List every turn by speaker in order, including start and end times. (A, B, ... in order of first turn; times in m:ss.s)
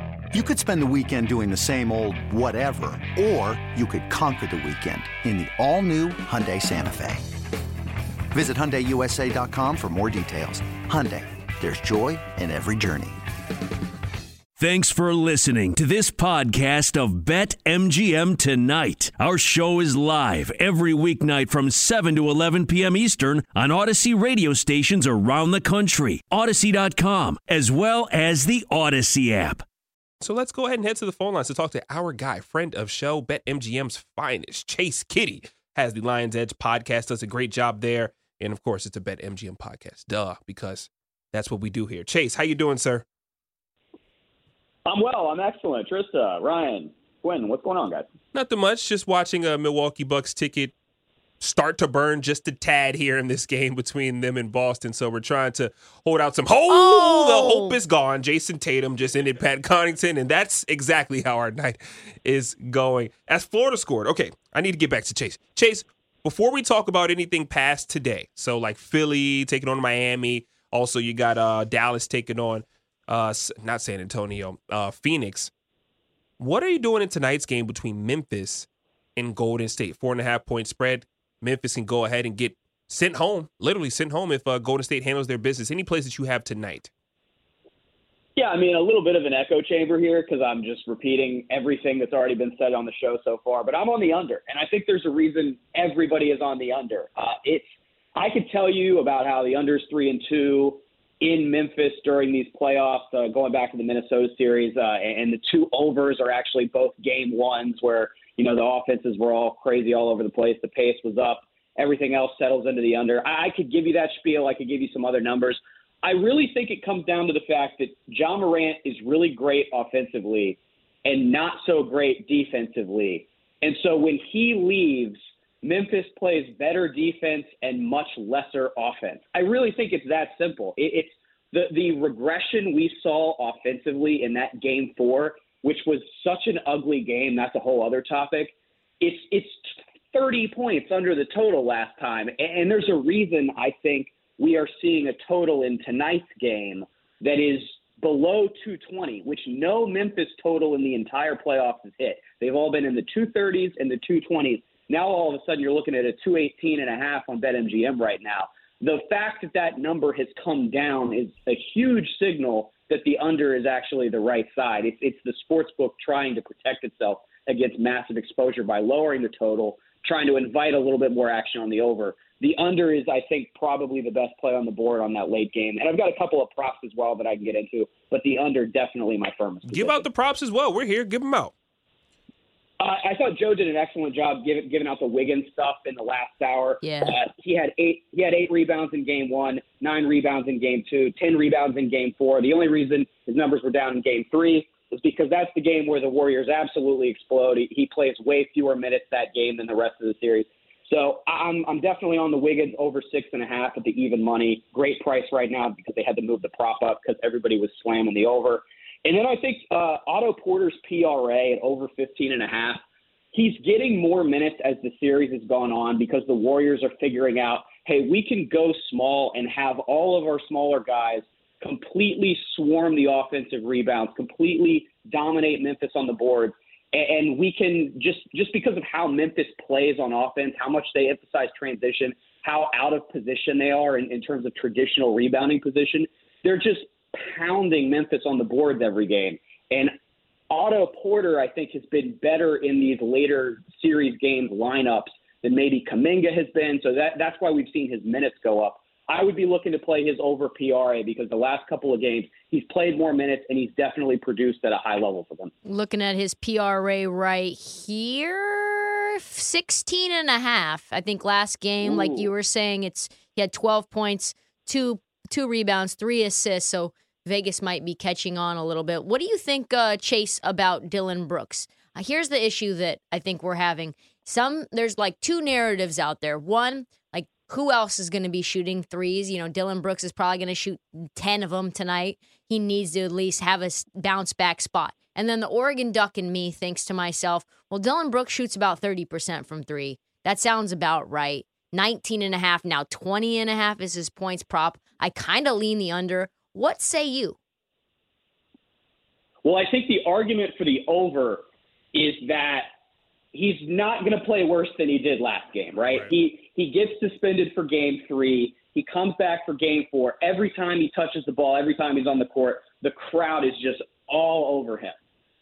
0:00.3-0:07.3 A
0:08.3-0:13.2 A
0:14.6-0:29.6 B
0:30.2-0:43.0 C
0:44.9-0:48.1 D
0:48.3-0:50.7 C
0:51.4-1:15.5 C
0:56.7-0:57.8 E
1:16.4-1:26.9 C
1:28.4-3:00.1 D
2:59.7-3:01.5 C
3:02.8-3:32.8 D
3:06.8-3:07.2 E
3:33.3-3:59.9 D
4:00.5-4:15.5 D
4:15.6-4:57.4 E
4:21.8-4:22.3 D
4:59.4-5:02.7 D
5:03.3-5:15.0 D
5:05.8-5:06.1 C